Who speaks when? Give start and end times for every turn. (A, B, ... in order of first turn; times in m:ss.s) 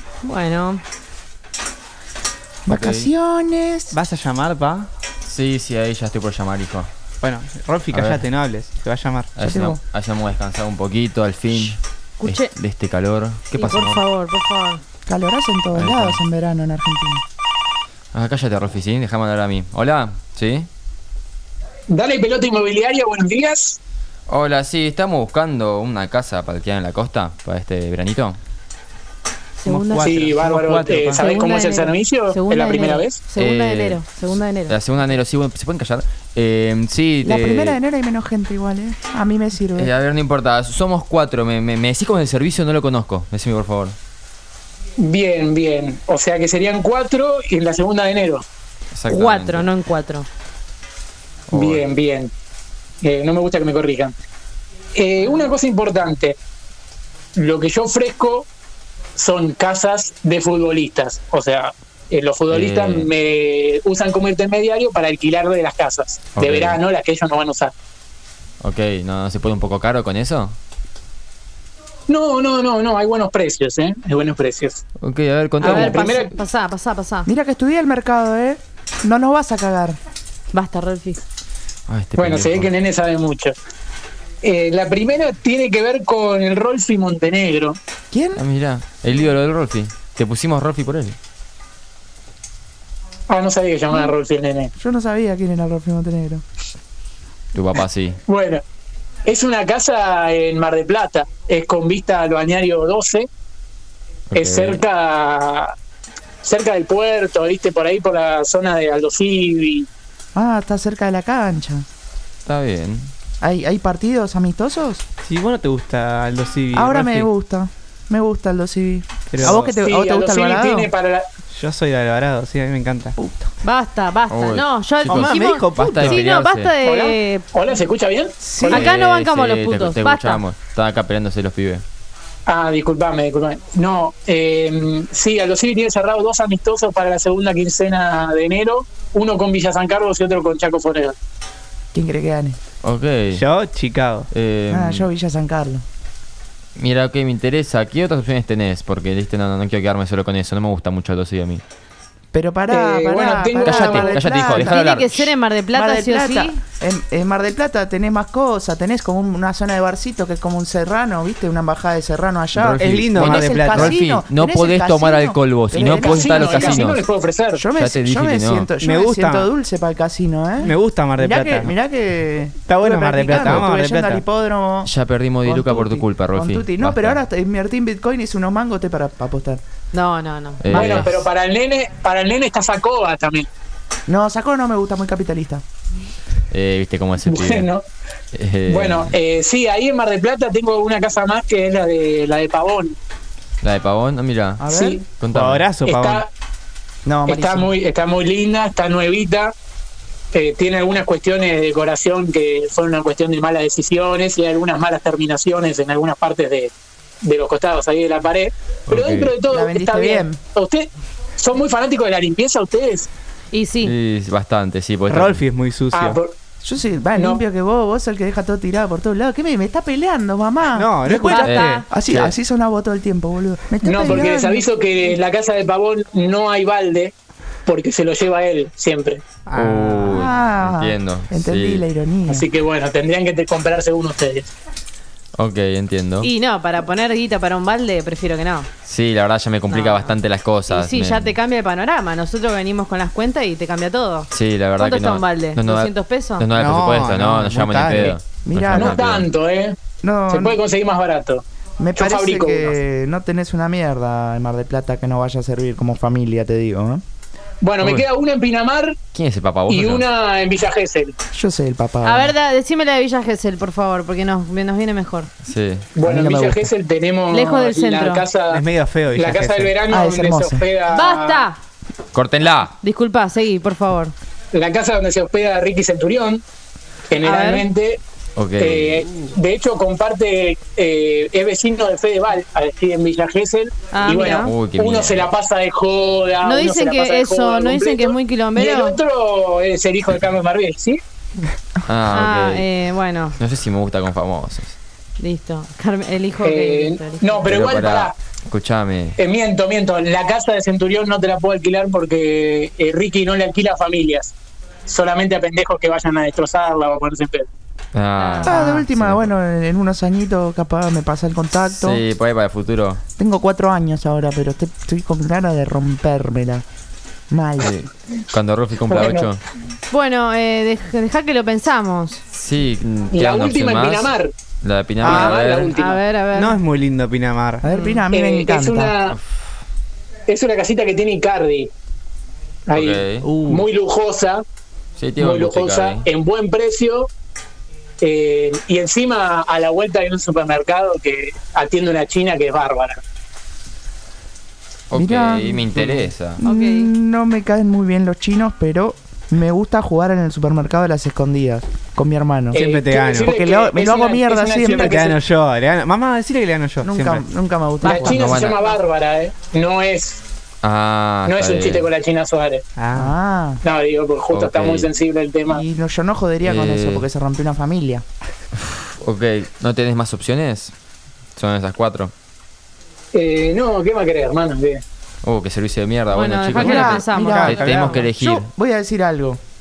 0:00.2-0:00.8 A
0:02.6-0:04.0 B
0:02.7-0:03.1 C
0:03.9-0:04.9 D
0:05.2-0:06.9 C
0:07.2-0:09.3 D
0:07.9-0:08.2 C
0:09.4-0:14.0 C
0:09.4-0:09.8 B
0:12.2-0:12.5 A
0:13.5-0:14.8 A
0:15.1-0:17.2 B
0:15.7-0:16.2 C
0:18.1-0:20.7 C
0:21.9-0:23.8 E
0:24.3-0:28.4 C
0:29.6-0:30.2 A
0:29.6-0:31.4 D
0:30.0-0:33.2 E
0:31.1-0:34.8 A
0:33.4-0:34.0 C
0:34.7-0:37.8 C
0:37.2-0:39.9 B
0:39.8-0:44.0 C
0:45.0-0:48.4 E
0:48.9-0:49.7 C
0:49.1-0:50.3 A
0:51.5-0:51.9 C
0:51.5-0:52.3 E
0:53.0-0:54.2 E
0:54.9-0:56.4 E
0:57.4-0:58.5 E
0:59.2-1:07.7 E
1:02.5-1:03.1 C
1:06.3-1:06.8 C
1:08.6-1:10.6 C
1:12.1-1:14.8 E
1:15.0-1:16.1 C
1:15.6-1:17.3 A
1:15.6-1:16.3 E
1:17.2-1:20.0 B
1:20.5-1:21.2 A
1:21.9-1:22.7 C
1:22.2-1:23.6 E
1:24.4-1:27.8 E
1:28.1-1:28.4 B
1:28.4-1:31.2 C
1:33.3-1:34.7 E
1:34.8-1:36.4 B
1:37.5-1:38.2 C
1:38.3-1:38.6 E
1:39.2-1:43.3 E
1:44.3-1:44.8 C
1:44.4-1:45.7 E
1:46.4-1:49.9 E
1:50.3-1:51.8 B
1:52.4-1:53.1 C
1:53.4-1:55.0 B
1:55.2-1:57.3 D
1:56.7-2:00.9 B
1:59.3-1:59.7 D
1:59.6-2:01.3 E
2:01.5-2:03.2 D
2:03.2-2:03.5 B
2:03.6-2:07.4 A
2:04.3-2:06.7 C
2:05.0-2:06.2 D
2:06.8-2:08.4 E
2:08.4-2:08.9 B
2:08.6-2:10.4 A
2:08.7-2:11.8 C
2:12.5-2:21.2 E
2:21.9-2:22.6 B
2:22.8-2:23.4 C
2:23.3-2:24.3 D
2:24.3-2:25.1 C
2:24.7-2:25.8 B
2:26.8-2:31.6 C
2:32.3-2:34.8 B
2:32.7-2:34.2 E
2:33.6-2:35.3 C
2:34.5-2:36.6 A
2:35.7-2:46.9 B
2:42.5-2:47.0 C
2:42.8-2:44.0 D
2:45.8-2:47.6 E
2:47.5-2:59.6 B
2:47.7-2:48.7 C
2:48.8-2:49.5 D
2:50.6-2:51.7 D
2:52.6-2:54.2 D
2:54.8-2:57.2 C
2:59.9-3:01.2 A
3:00.6-3:01.3 C
3:00.7-3:03.5 E
3:04.1-3:05.6 B
3:06.5-3:07.7 C
3:07.2-3:07.8 E
3:08.3-3:09.1 C
3:08.7-3:13.0 E
3:13.6-3:15.7 C
3:14.6-3:15.0 B
3:14.7-3:15.0 E
3:15.3-3:16.2 D
3:15.8-3:16.3 E
3:17.0-3:17.7 B
3:17.2-3:19.5 E
3:20.3-3:33.1 E
3:28.9-3:29.4 C
3:29.4-3:30.4 B
3:33.5-3:33.9 A
3:33.8-3:35.4 C
3:35.1-3:36.2 D
3:35.9-3:36.3 E
3:36.6-3:44.7 B
3:37.1-3:37.4 E
3:40.7-3:41.8 D
3:41.2-3:41.8 A
3:41.4-3:42.3 C
3:43.8-3:47.1 E
3:47.6-3:49.4 E
3:49.4-3:50.3 D
3:49.5-3:51.8 C
3:50.1-3:52.5 B
3:52.3-3:54.5 E
3:55.4-3:56.3 C
3:56.2-3:58.7 A
3:58.8-4:01.3 C
3:59.7-4:06.5 A
4:04.3-4:09.3 C
4:06.5-4:08.2 D
4:08.4-4:08.9 B
4:08.7-4:11.4 E
4:10.0-4:10.6 B
4:11.8-4:17.0 B
4:12.0-4:12.7 E
4:17.6-4:19.0 E
4:17.8-4:18.0 C
4:19.1-4:20.1 C
4:19.7-4:21.2 E
4:21.3-4:22.3 B
4:22.0-4:25.3 A
4:25.4-4:25.9 C
4:26.0-4:31.5 E
4:26.0-4:26.7 B
4:27.3-4:28.2 A
4:28.5-4:29.7 D
4:29.9-4:30.7 B
4:30.9-4:31.6 A
4:32.1-4:32.7 C
4:32.8-4:34.1 A
4:34.5-4:36.4 E
4:37.1-4:38.0 E
4:37.2-4:37.7 A
4:38.4-4:39.1 C
4:38.6-4:51.0 E
4:43.9-4:44.5 A
4:44.4-4:45.2 C
4:46.4-4:49.0 A
4:51.8-4:52.6 C
4:52.1-4:53.4 A
4:53.4-4:54.7 C
4:55.2-4:57.5 A
4:56.4-4:58.1 E
4:57.4-4:59.2 C
4:59.2-5:04.3 E
5:04.9-5:07.5 E
5:07.9-5:09.3 C
5:08.2-5:08.6 A
5:08.4-5:12.0 B
5:11.7-5:13.0 C
5:13.2-5:16.6 B
5:17.3-5:17.7 B
5:17.6-5:19.4 C
5:18.9-5:19.3 E
5:19.9-5:22.2 A
5:22.3-5:25.8 C
5:23.1-5:24.3 E
5:25.0-5:25.3 D
5:25.0-5:26.0 E
5:25.7-5:26.6 A
5:26.3-5:27.6 D
5:27.6-5:28.9 B
5:28.1-5:29.2 E
5:30.3-5:31.7 E
5:32.7-5:34.4 E
5:32.7-5:33.4 C
5:33.2-5:33.6 D
5:35.0-5:36.0 C
5:35.2-5:37.1 E
5:38.0-5:43.0 E
5:44.9-5:46.4 C
5:44.9-5:52.7 B
5:46.4-5:46.9 A
5:52.5-5:55.2 E
5:52.6-5:53.3 D
5:53.2-5:54.9 B
5:54.7-5:57.2 D
5:56.8-5:58.2 B
5:57.8-6:00.2 E
5:58.0-5:58.6 C
6:00.6-6:01.9 C
6:01.2-6:02.6 E
6:02.8-6:03.1 D
6:02.9-6:03.6 B
6:03.6-6:05.6 E
6:04.3-6:04.9 C
6:05.4-6:08.0 B
6:06.4-6:07.0 C
6:08.6-6:10.7 C
6:11.4-6:12.1 C
6:13.1-6:14.8 E
6:15.2-6:18.5 C
6:16.1-6:18.0 A
6:16.6-6:18.1 D
6:16.6-6:19.4 B